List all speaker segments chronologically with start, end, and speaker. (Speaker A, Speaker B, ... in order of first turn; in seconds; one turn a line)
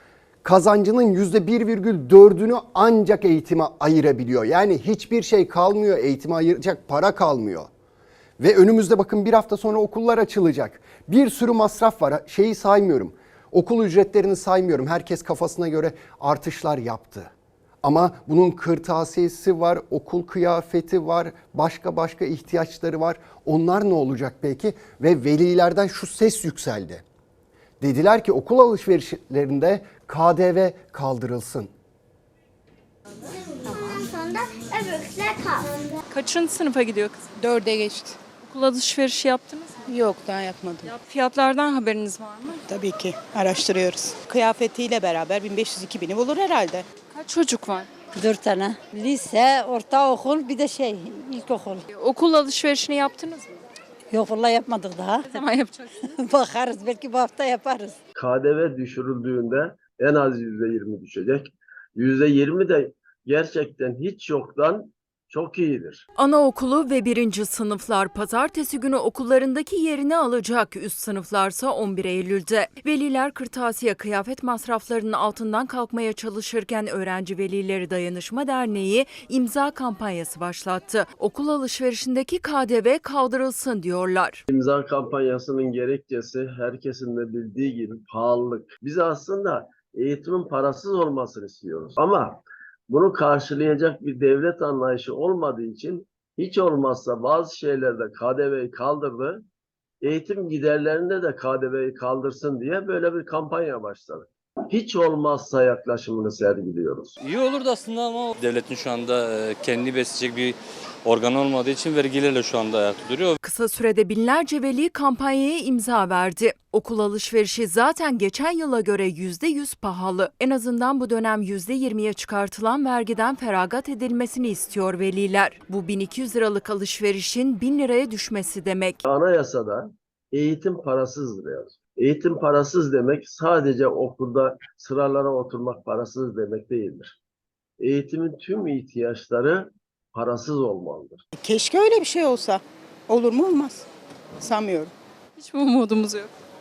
Speaker A: 0.4-7.7
Speaker A: 8.4-17.3
Speaker A: 17.8-27.0
Speaker A: 27.8-31.7
Speaker B: 33.7-35.6
Speaker C: 36.1-37.2
Speaker D: 37.4-38.2
Speaker C: 38.4-39.8
Speaker D: 39.9-40.9
Speaker C: 41.0-42.6
Speaker D: 42.7-46.8
Speaker C: 47.1-47.9
Speaker E: 48.1-51.9
Speaker C: 51.9-53.5
Speaker E: 54.1-55.4
Speaker C: 55.3-55.9
Speaker E: 56.0-58.0
Speaker F: 58.1-66.0
Speaker G: 66.2-84.4
Speaker F: 84.5-92.3
Speaker F: 92.9-99.4
Speaker F: 100.0-107.2
Speaker H: 107.2-113.4
Speaker G: 113.4-129.0
Speaker F: 129.1-129.8
Speaker F: 130.3-137.2
Speaker F: 137.8-141.2
Speaker D: 141.4-143.8
Speaker D: 144.4-144.9
Speaker C: 145.4-146.3